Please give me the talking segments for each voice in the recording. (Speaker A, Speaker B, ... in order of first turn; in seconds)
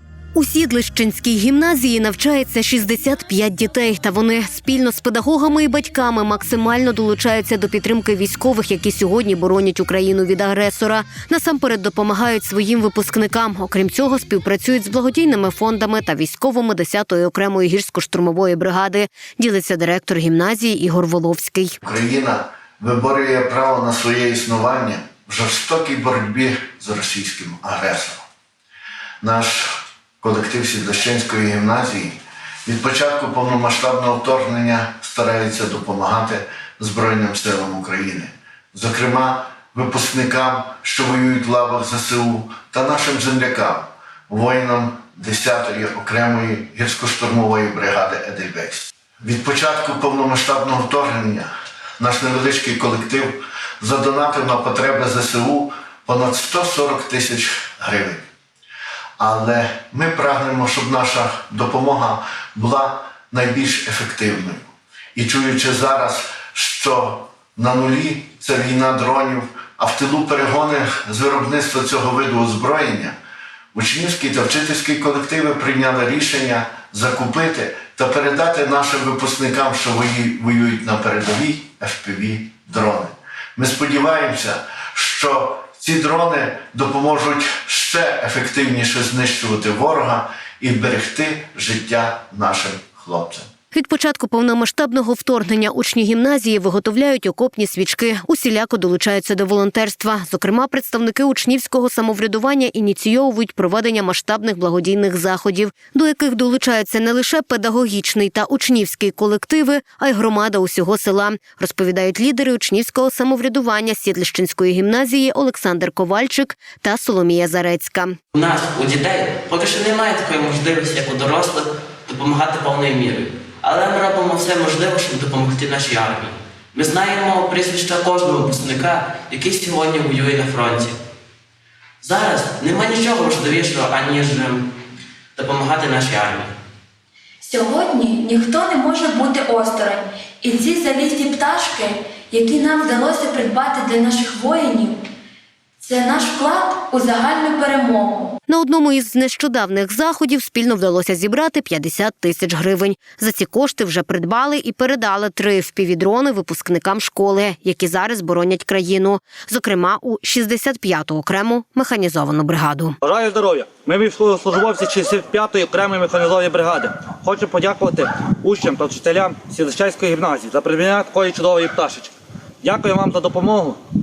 Speaker A: 0.3-21.8, 93.7-118.2, 148.5-162.9
Speaker B: 21.8-28.2, 29.2-58.2, 59.2-73.1, 73.7-93.5
Speaker C: 118.3-130.9, 132.0-134.7, 135.3-136.5
Speaker D: 137.4-145.0, 145.8-148.3
Speaker E: 163.0-173.8